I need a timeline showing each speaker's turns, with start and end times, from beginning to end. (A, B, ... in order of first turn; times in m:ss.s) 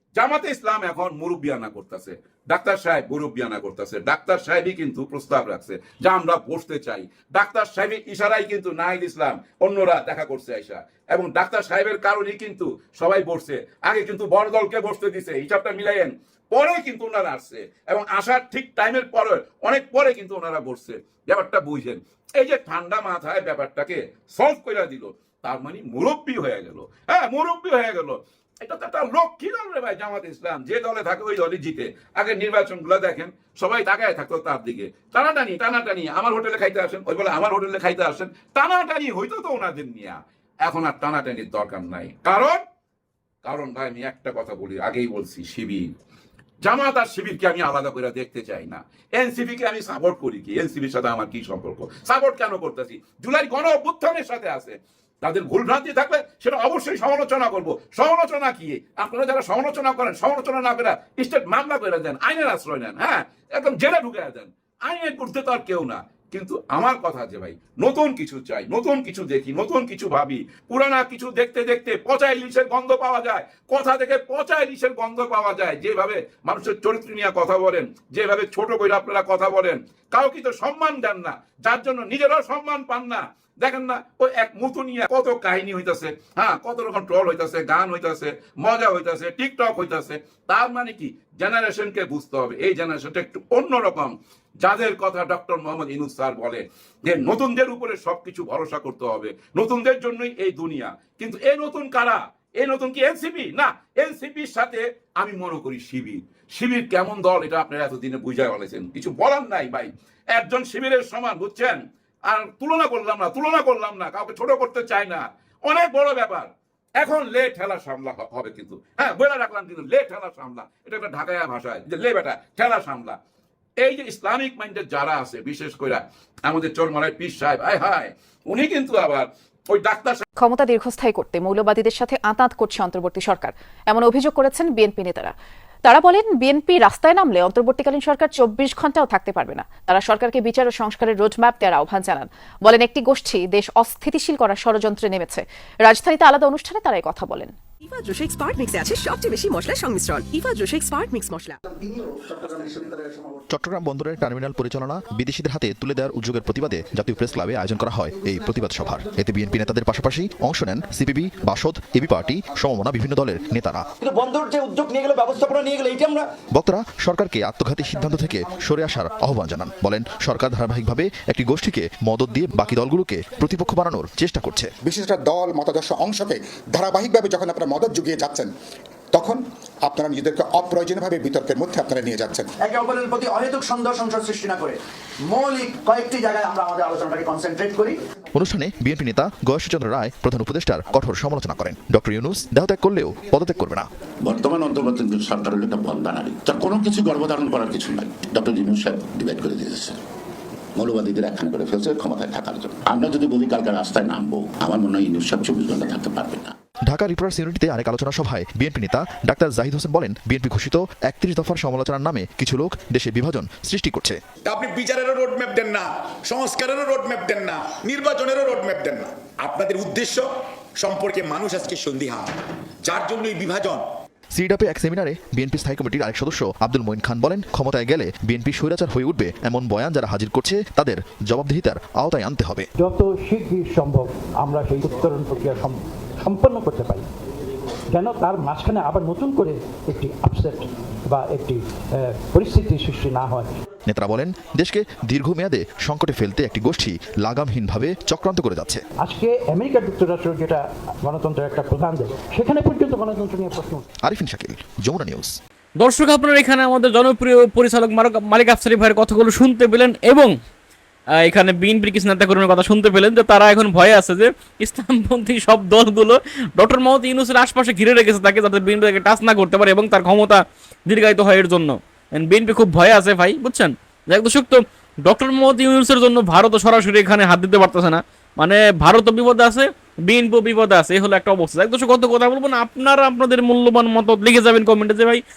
0:00.2-0:42.6 A
0:43.4-0:45.9 A
0:46.6-2:03.2 A
2:03.8-2:10.2 A
2:10.4-2:15.3 B
2:15.8-2:27.5 B
2:27.8-2:31.6 C
2:31.8-2:33.4 D
2:33.5-2:43.8 E
2:44.0-2:46.3 F
2:46.5-2:54.7 E
2:54.8-2:58.5 D
2:59.1-3:02.5 D
3:02.6-3:08.0 F
3:08.4-3:13.9 E
3:14.2-3:20.0 G
3:20.8-3:26.5 G
3:26.9-3:34.2 E
3:34.4-3:43.8 H
3:44.4-3:52.7 E
3:52.8-3:57.0 I
3:57.9-4:03.5 I
4:03.9-4:08.8 E
4:09.0-4:13.9 I
4:14.0-4:15.3 E
4:15.8-4:20.3 J
4:21.2-4:45.2 J